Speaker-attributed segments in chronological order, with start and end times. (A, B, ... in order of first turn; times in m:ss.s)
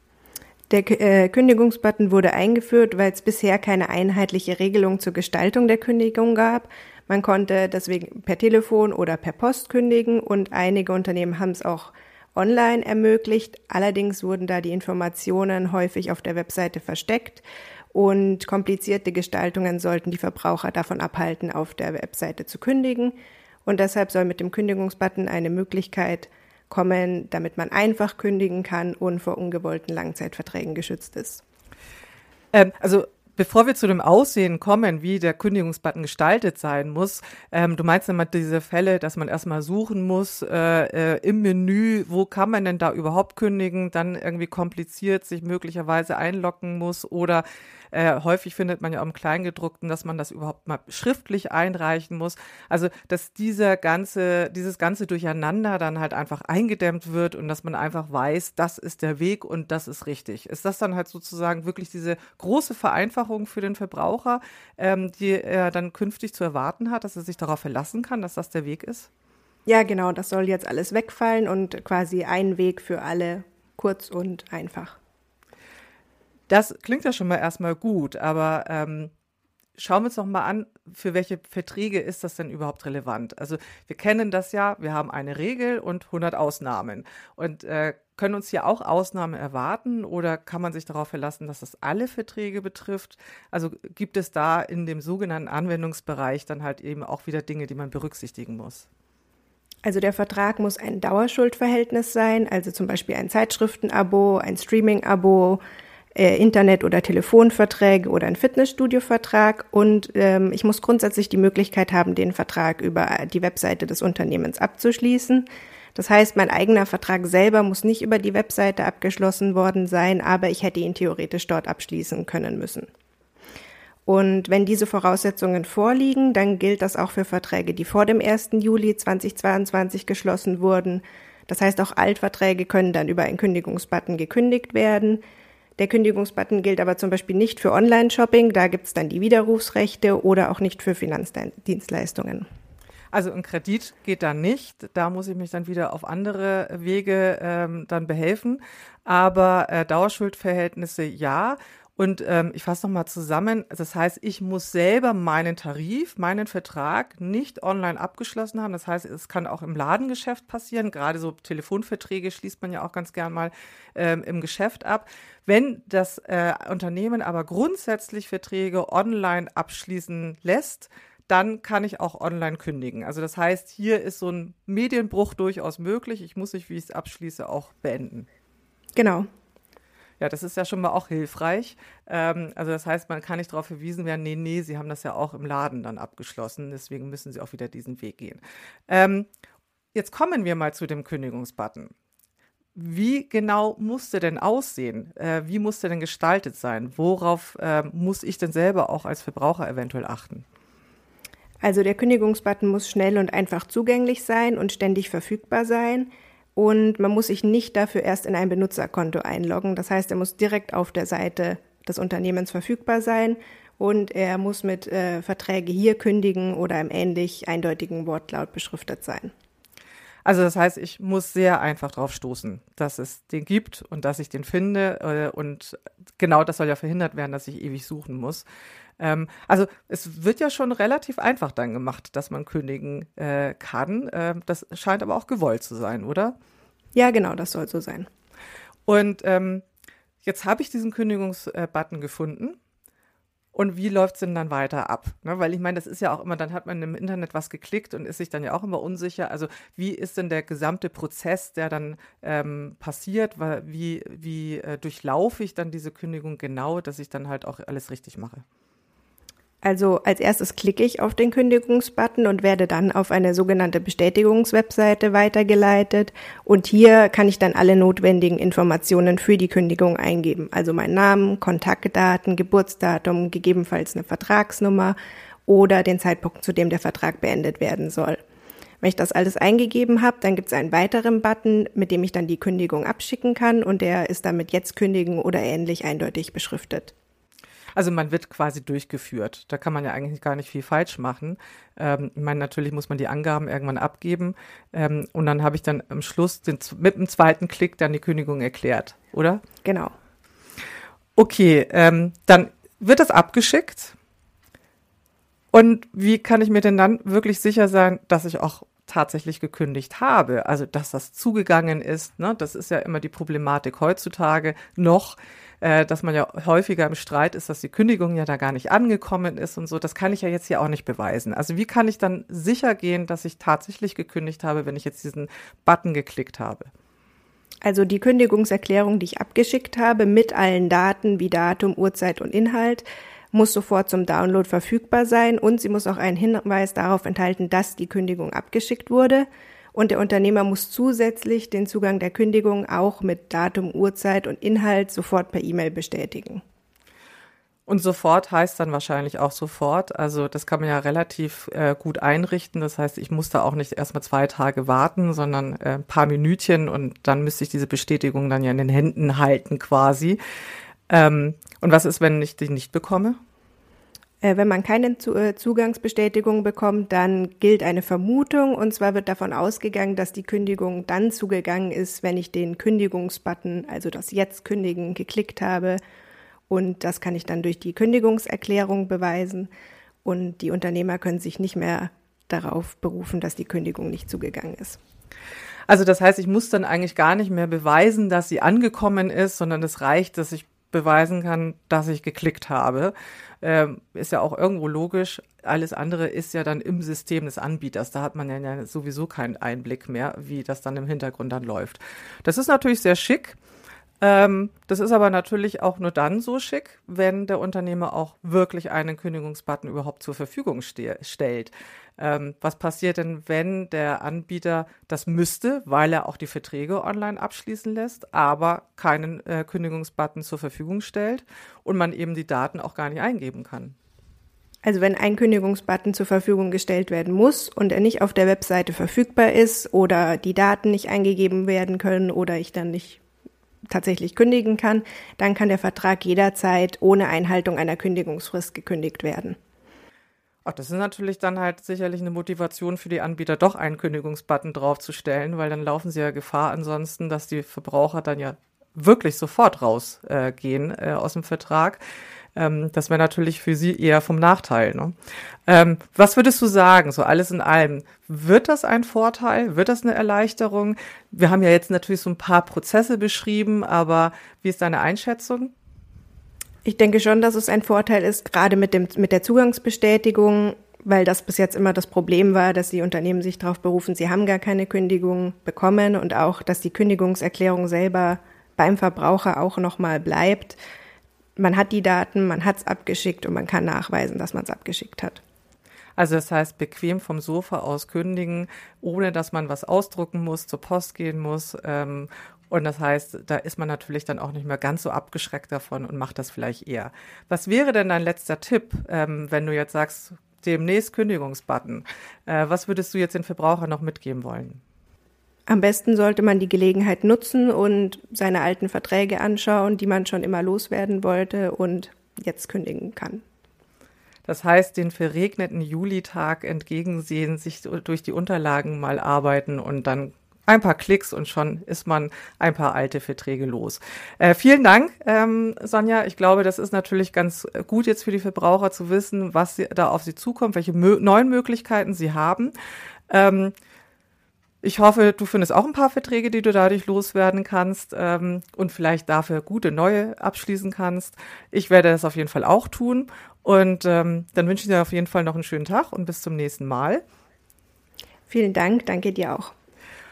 0:00.7-0:31.4 A
0:32.5-1:09.1 B
1:09.6-1:15.0 A
1:16.5-1:19.1 B
1:19.8-1:38.9 B
1:39.8-1:45.6 A
1:46.1-2:02.9 A
2:04.0-2:15.2 A
2:15.8-2:22.4 A
2:23.1-2:58.3 B
2:59.0-2:59.3 A
3:00.2-3:09.3 B
3:09.9-3:11.9 B
3:12.7-3:20.4 B
3:21.6-3:39.3 A
3:40.2-3:48.4 B
3:49.0-3:56.3 B
3:56.9-3:58.1 A
3:58.9-3:59.6 B
4:00.2-4:02.6 B
4:03.5-4:18.4 B
4:19.6-4:35.0 A
4:35.5-4:38.2 A
4:38.8-4:46.9 A
4:47.7-4:59.4 B
4:59.6-4:59.9 A
5:01.2-5:04.0 B
5:05.5-5:26.7 B
5:27.6-5:46.4 A
5:47.7-6:00.2 B
6:00.9-6:03.2 B
6:04.2-6:15.8 A
6:16.5-6:19.5 A
6:20.0-6:24.8 A
6:25.7-6:43.4 B
6:44.0-7:03.8 B
7:04.6-7:13.0 A
7:13.7-7:19.4 A
7:20.4-7:31.8 B
7:32.4-7:34.9 B
7:35.5-7:45.5 B
7:46.6-8:00.6 A
8:01.4-8:05.2 A
8:06.0-8:24.6 B
8:25.5-8:33.2 A
8:34.2-8:52.5 B
8:53.1-8:53.5 B
8:54.6-9:07.0 B
9:08.3-9:09.5 A